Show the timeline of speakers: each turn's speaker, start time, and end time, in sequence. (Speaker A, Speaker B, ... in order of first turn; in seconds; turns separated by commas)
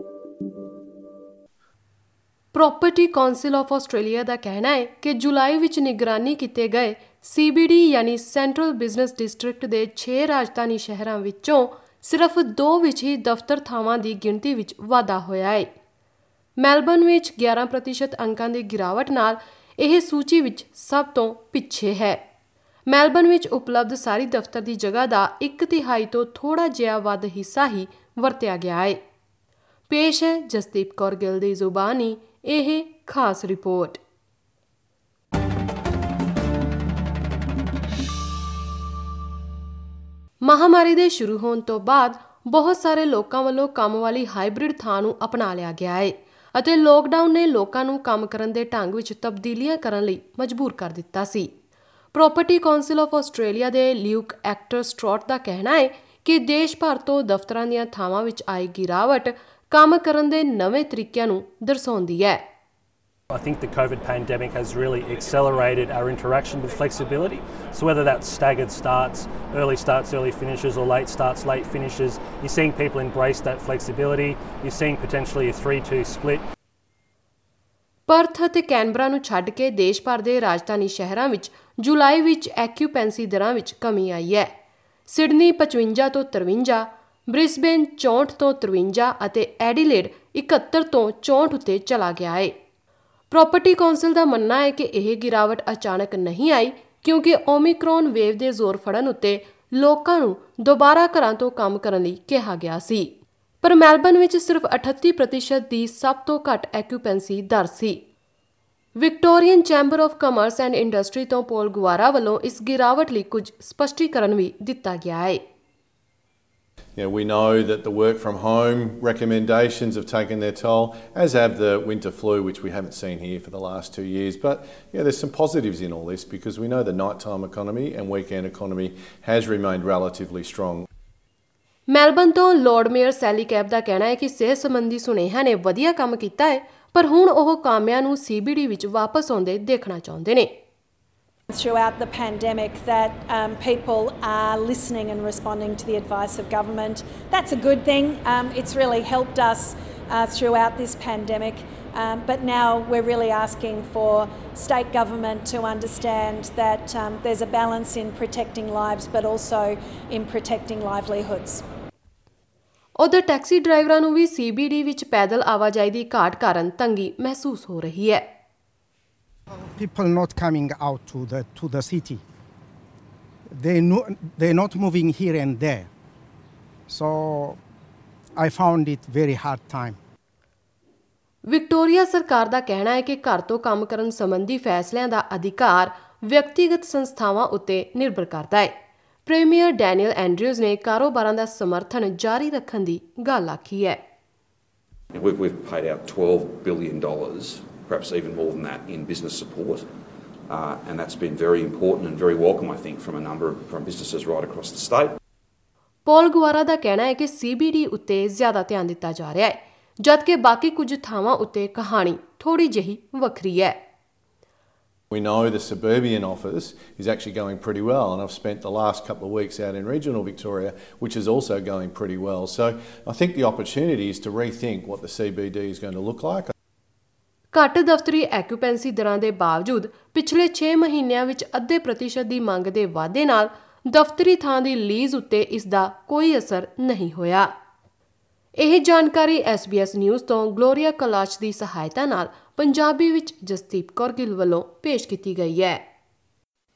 Speaker A: 2.5-15.7, Speaker A: 16.6-22.2, Speaker A: 22.9-29.0, Speaker A: 29.9-34.0, Speaker A: 40.4-51.5, Speaker A: 52.1-62.5, Speaker B: 63.3-76.4, Speaker A: 78.1-84.5, Speaker A: 85.1-92.6, Speaker A: 93.3-108.0, Speaker A: 109.0-115.4, Speaker C: 117.0-130.8, Speaker A: 131.9-140.5, Speaker D: 141.5-161.6, Speaker A: 163.0-168.3, Speaker E: 169.8-172.2, Speaker E: 173.5-175.9, Speaker E: 176.9-177.6, Speaker E: 178.3-180.0, Speaker A: 181.5-188.8, Speaker A: 189.2-194.0, Speaker F: 195.1-199.9, Speaker F: 200.5-205.2, Speaker A: 206.1-213.8, Speaker C: 215.1-226.5, Speaker A: 227.5-237.5, Speaker A: 238.6-245.8